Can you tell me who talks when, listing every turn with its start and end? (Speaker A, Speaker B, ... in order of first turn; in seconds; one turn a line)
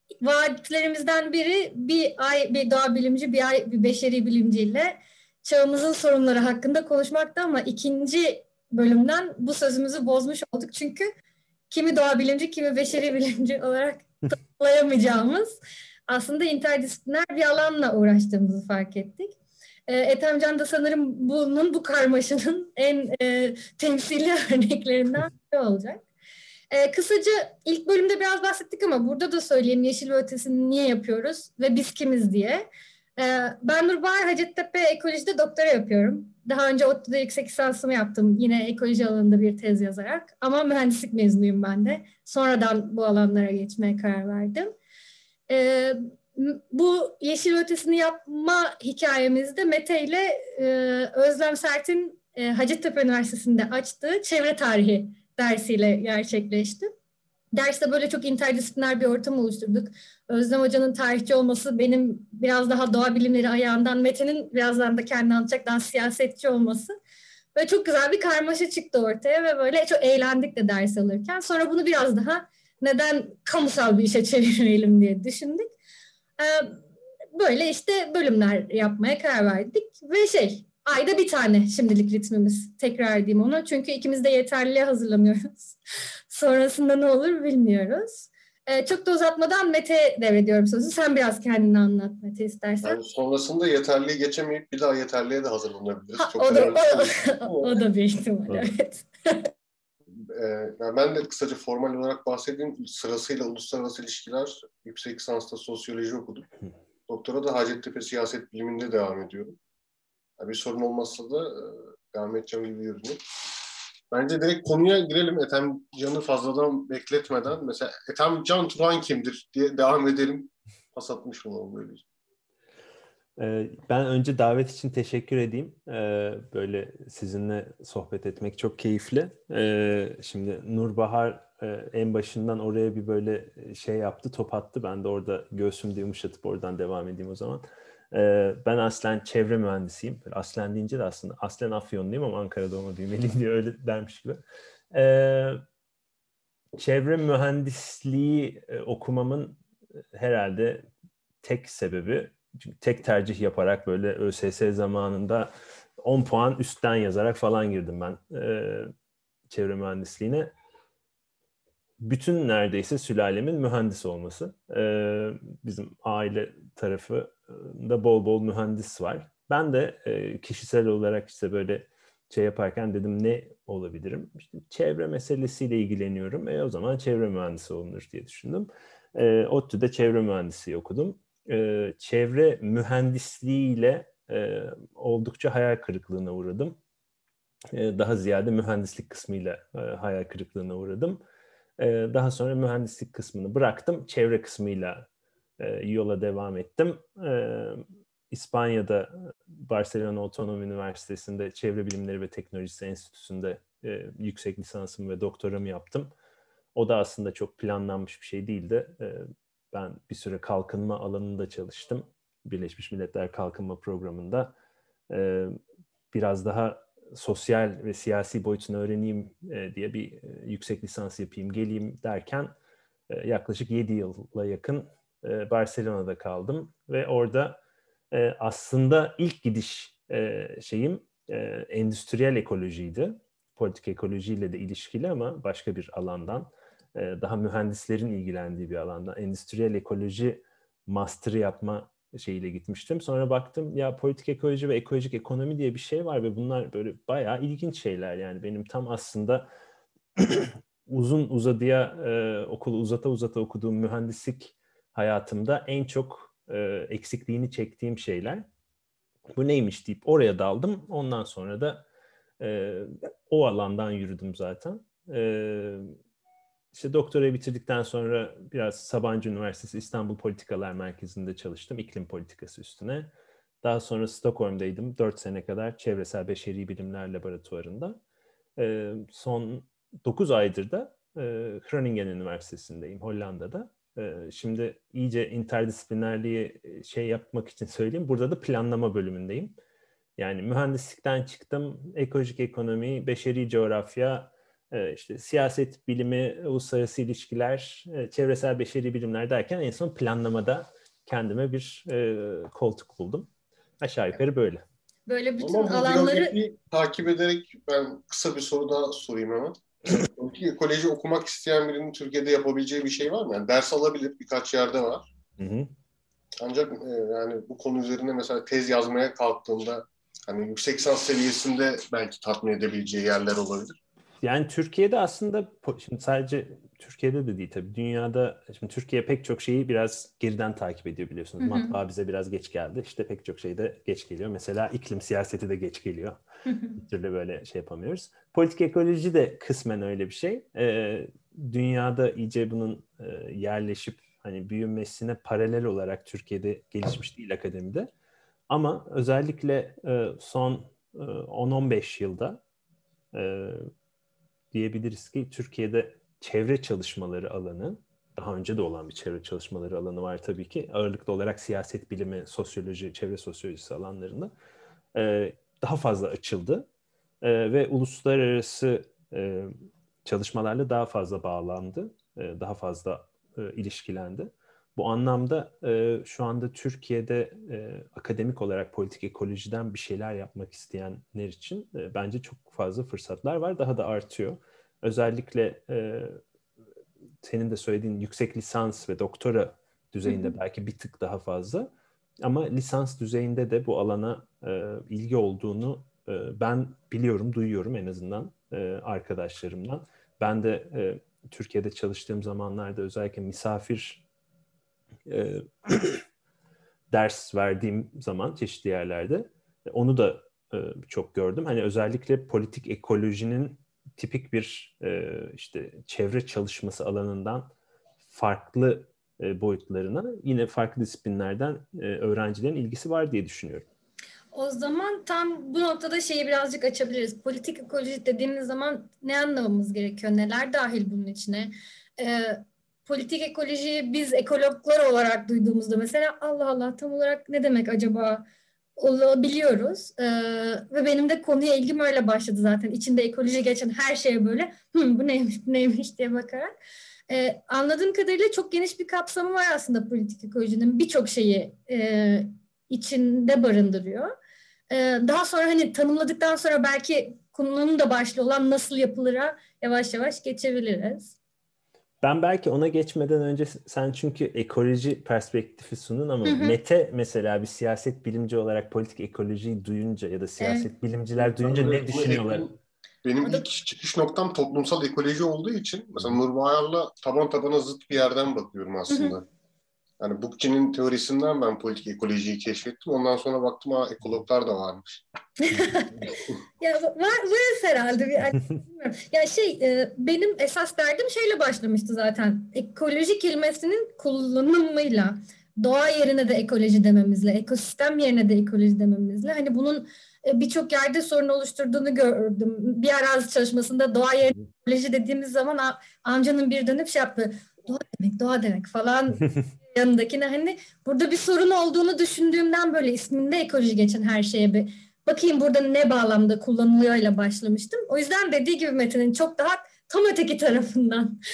Speaker A: 0.2-11.1
Speaker A: 11.7-19.4
Speaker A: 19.9-26.0
Speaker A: 26.7-44.7
Speaker A: 45.5-56.9
Speaker A: 57.5-66.9
Speaker A: 67.5-75.7
Speaker A: 76.4-76.8
Speaker A: 77.3-85.8
Speaker A: 86.3-93.0
Speaker B: 92.8-97.8
Speaker A: 96.2-99.5
Speaker B: 100.1-106.5
Speaker B: 107.1-109.6
Speaker B: 110.4-113.5
Speaker B: 114.1-122.0
Speaker C: 123.4-145.6
Speaker C: 146.8-149.6
Speaker C: 150.1-150.9
Speaker C: 151.4-158.9
Speaker C: 159.5-160.5
Speaker C: 162.0-186.8
Speaker C: 187.7-191.2
Speaker C: 191.8-195.1
Speaker C: 195.6-206.1
Speaker C: 206.8-214.5
Speaker C: 215.1-215.6
Speaker C: 216.1-222.6
Speaker C: 223.1-227.6
Speaker C: 228.1-249.5
Speaker C: 250.2-258.4
Speaker C: 259.4-261.9
Speaker C: 262.4-265.9
Speaker C: 266.7-273.1
Speaker C: 273.6-278.0
Speaker C: 278.6-289.6
Speaker C: 290.2-303.3
Speaker C: 303.8-304.6
Speaker A: 305.1-306.4
Speaker B: 305.4-315.1
Speaker C: 315.4-315.7
Speaker B: 316.4-323.8
Speaker C: 324.2-336.2
Speaker A: 331.4-331.8
Speaker A: 336.5-336.8
Speaker C: 336.8-347.9
Speaker C: 348.5-352.4
Speaker C: 353.1-353.7
Speaker C: 354.5-364.3
Speaker C: 364.9-366.7
Speaker C: 367.2-369.5
Speaker C: 370.1-386.2
Speaker C: 387.2-391.7
Speaker A: 390.1-390.4
Speaker C: 392.2-404.0
Speaker C: 405.1-406.0
Speaker C: 406.9-417.5
Speaker C: 418.1-423.7
Speaker A: 424.3-438.2
Speaker A: 438.8-446.5
Speaker A: 447.1-454.1
Speaker A: 454.7-461.2
Speaker C: 462.0-472.6
Speaker A: 466.2-466.6
Speaker A: 470.4-470.7
Speaker B: 471.2-472.5
Speaker B: 473.0-479.3
Speaker A: 478.9-479.2
Speaker B: 480.0-484.8
Speaker A: 485.4-521.2